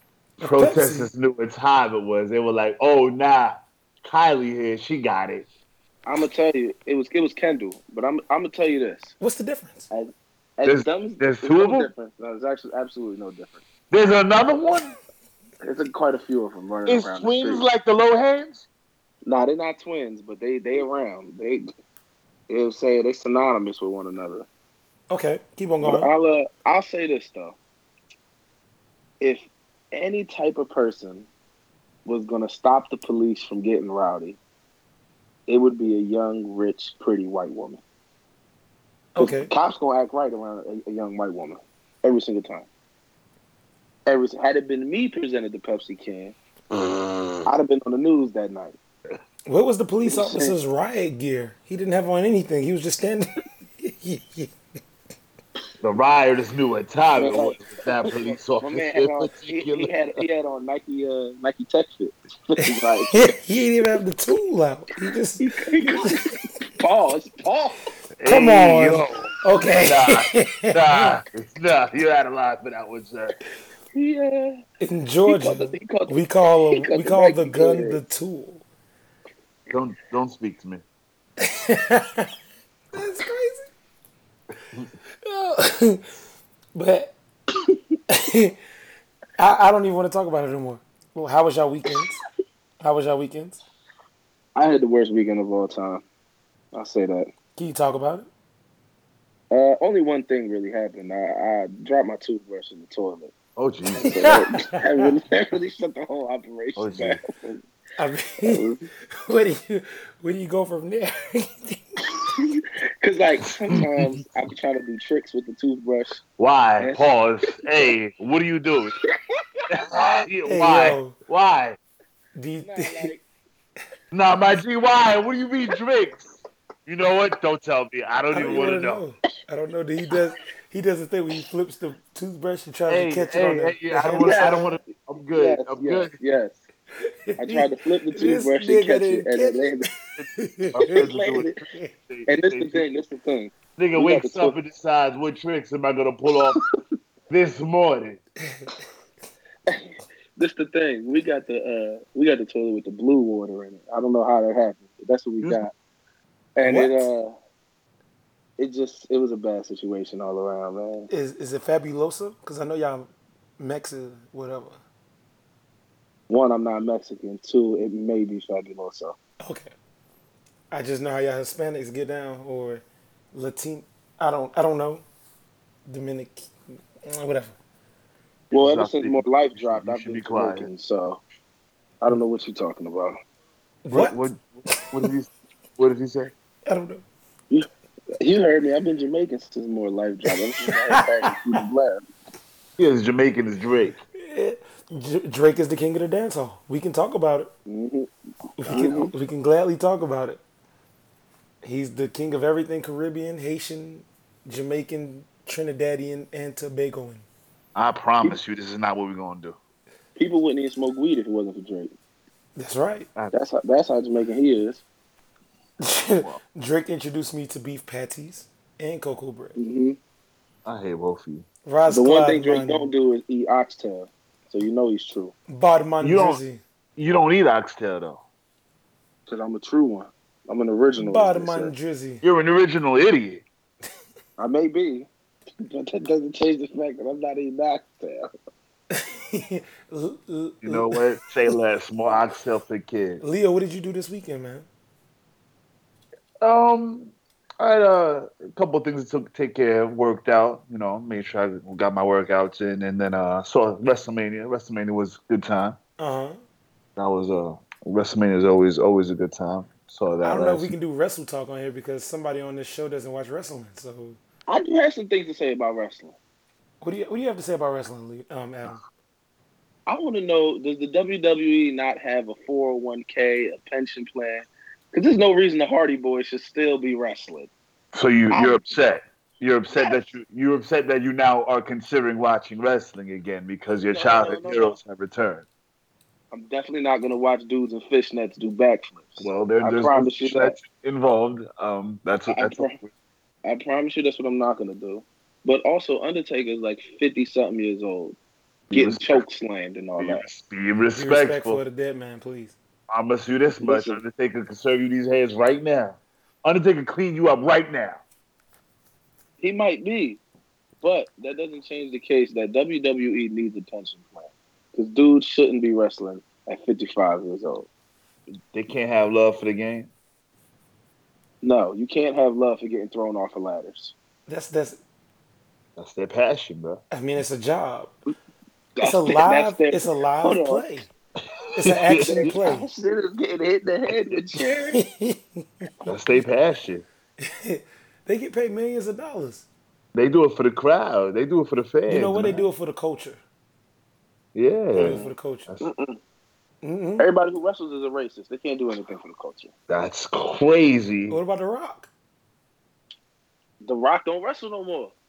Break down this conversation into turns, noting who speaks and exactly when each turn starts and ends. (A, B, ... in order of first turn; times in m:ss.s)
0:00.4-0:05.5 A
0:00.4-0:01.1 B
0:06.1-0:09.2 C
0:09.2-0:09.9 B
0:09.9-0:13.6 C
0:10.7-0:11.9 A
0:13.9-0:15.0 A
0:15.6-0:17.7 C
0:16.9-0:18.7 A
0:19.3-0:21.7 C
0:22.5-0:24.5 C
0:25.1-0:26.1 B
0:25.8-0:27.6 C
0:29.2-0:31.3 C
0:32.1-0:34.4 C
0:35.5-0:37.8 C
0:39.2-0:39.5 B
0:39.2-0:42.7 C
0:44.1-0:46.4 C
0:47.5-0:48.8 C
0:49.5-0:54.5 B
0:50.1-0:50.6 C
0:55.8-1:00.2 A
0:57.2-1:03.2 C
1:03.1-1:06.2 B
1:05.4-1:07.8 C
1:08.2-1:13.4 A
1:08.3-1:11.1 B
1:13.9-1:14.6 C
1:14.8-1:18.6 B
1:15.3-1:18.0 C
1:19.7-1:20.8 A
1:21.4-1:22.3 B
1:22.9-1:23.7 B
1:25.2-1:26.0 B
1:26.7-1:27.2 B
1:28.1-1:28.5 B
1:29.4-1:32.2 B
1:32.8-1:33.6 B
1:34.6-1:36.0 C
1:36.7-1:37.3 C
1:37.6-1:38.3 B
1:39.5-1:43.3 C
1:43.6-1:44.4 A
1:44.0-1:45.0 B
1:44.0-1:47.6 C
1:46.8-1:47.2 A
1:48.0-1:48.7 B
1:48.4-1:48.9 C
1:49.2-1:52.0 B
1:52.2-1:56.2 C
1:53.5-1:54.2 A
1:56.4-1:58.9 A
1:56.8-1:57.6 C
1:59.7-2:01.8 A
2:00.5-2:01.2 B
2:02.4-2:03.1 B
2:02.6-2:03.2 C
2:04.1-2:09.0 A
2:08.3-2:14.6 B
2:12.9-2:16.1 A
2:14.1-2:16.6 C
2:17.0-2:21.1 B
2:17.4-2:19.9 C
2:20.2-2:21.5 A
2:20.8-2:21.6 C
2:21.7-2:21.9 B
2:22.1-2:22.8 A
2:22.3-2:24.6 C
2:23.8-2:26.6 A
2:27.3-2:28.2 A
2:28.4-2:28.7 B
2:29.7-2:35.7 C
2:36.6-2:37.4 C
2:36.6-2:37.1 B
2:38.6-2:41.1 C
2:41.1-2:44.8 B
2:46.3-2:49.2 C
2:49.4-2:49.7 B
2:50.7-2:55.0 B
2:55.9-2:57.6 B
2:58.5-3:00.7 A
2:58.6-3:01.2 C
3:02.0-3:03.2 C
3:03.8-3:04.2 B
3:03.9-3:06.3 A
3:04.7-3:05.1 B
3:06.7-3:07.0 B
3:08.2-3:12.0 C
3:10.3-3:11.6 B
3:12.8-3:14.0 A
3:14.2-3:17.5 B
3:17.7-3:18.1 C
3:18.6-3:20.4 B
3:18.7-3:19.1 A
3:18.7-3:19.1 C
3:21.6-3:27.3 B
3:27.8-3:29.6 A
3:30.2-3:31.9 C
3:32.6-3:33.1 B
3:33.3-3:34.8 C
3:35.8-3:39.6 B
3:39.6-3:40.0 C
3:40.6-3:41.5 A
3:41.6-3:42.9 B
3:41.9-3:45.3 C
3:45.5-3:46.6 B
3:46.0-3:46.4 A
3:47.0-3:48.2 A
3:49.3-3:51.7 C
3:51.0-3:52.2 B
3:52.2-3:53.4 A
3:54.4-3:55.1 C
3:55.6-3:58.3 C
3:58.9-4:01.0 B
4:00.6-4:03.2 A
4:03.2-4:04.7 B
4:06.4-4:15.8 A
4:16.0-4:16.4 B
4:17.0-4:20.7 A
4:20.2-4:24.2 B
4:24.5-4:26.2 C
4:26.8-4:28.8 B
4:29.9-4:37.5 C
4:37.9-4:45.5 A
4:38.3-4:38.6 C
4:39.7-4:40.0 C
4:43.9-4:44.8 C
4:46.3-4:50.6 C
4:49.2-4:52.9 A
4:52.3-4:52.8 C
4:53.4-4:58.2 C
4:58.7-4:59.2 A
4:58.7-5:00.3 C
5:00.0-5:01.6 A
5:01.0-5:02.6 B
5:02.9-5:08.0 A
5:03.6-5:04.0 C
5:09.4-5:10.2 C
5:10.8-5:17.7 C
5:18.5-5:19.9 A
5:21.4-5:23.9 C
5:24.3-5:24.8 B
5:25.8-5:26.8 A
5:26.9-5:27.9 B
5:28.8-5:30.7 C
5:28.8-5:30.9 B
5:31.5-5:32.3 A
5:31.6-5:32.7 B
5:32.0-5:34.8 C
5:34.7-5:36.2 B
5:35.9-5:36.8 A
5:37.2-5:39.5 B
5:40.0-5:42.4 A
5:41.9-5:43.2 B
5:44.4-5:45.7 A
5:44.7-5:45.5 B
5:44.8-5:46.0 C
5:46.6-5:47.1 B
5:47.0-5:49.5 C
5:49.7-5:51.2 A
5:51.1-5:51.9 B
5:53.6-5:55.0 C